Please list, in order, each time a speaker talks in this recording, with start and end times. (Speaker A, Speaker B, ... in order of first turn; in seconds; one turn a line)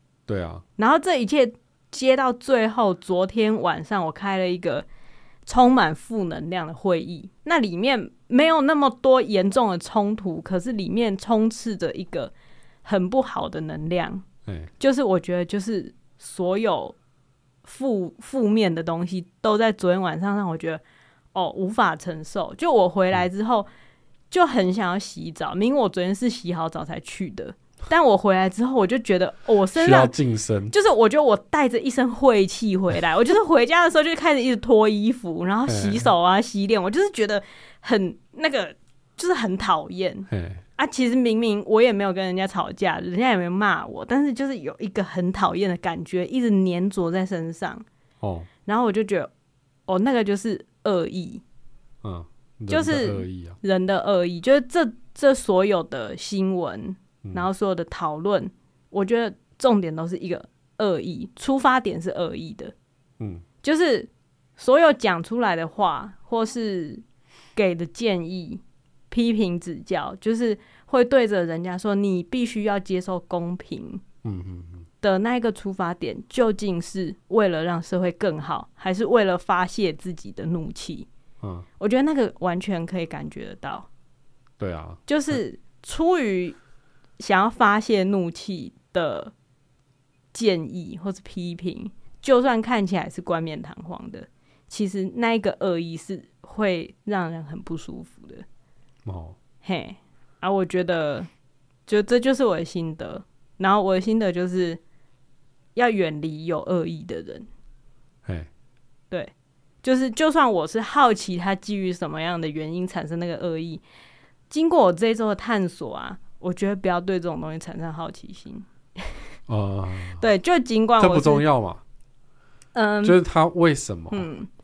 Speaker A: 0.3-0.6
Speaker B: 0.8-4.9
Speaker B: 5.5-12.3
Speaker B: 12.8-14.2
Speaker B: 14.8-16.9
Speaker B: 17.6-20.8
Speaker B: 21.3-23.7
Speaker B: 24.3-30.1
Speaker A: 29.7-30.7
Speaker B: 30.7-47.8
Speaker A: 35.7-36.1
Speaker A: 40.3-40.6
Speaker A: 48.2-48.5
Speaker B: 48.6-49.3
Speaker B: 49.9-51.4
Speaker A: 52.0-53.6
Speaker B: 52.7-62.7
Speaker A: 63.2-63.4
Speaker B: 63.6-67.0
Speaker B: 67.5-74.0
Speaker A: 74.2-74.8
Speaker B: 75.0-81.1
Speaker B: 81.8-83.9
Speaker A: 84.6-85.4
Speaker B: 85.1-86.6
Speaker B: 87.2-89.3
Speaker B: 90.3-98.4
Speaker A: 99.0-99.3
Speaker B: 99.6-101.3
Speaker B: 101.9-104.8
Speaker B: 105.8-107.5
Speaker B: 109.8-113.8
Speaker B: 114.5-119.2
Speaker A: 119.5-120.2
Speaker B: 120.2-121.4
Speaker A: 121.0-121.8
Speaker B: 122.7-123.2
Speaker A: 123.0-124.3
Speaker B: 124.1-124.5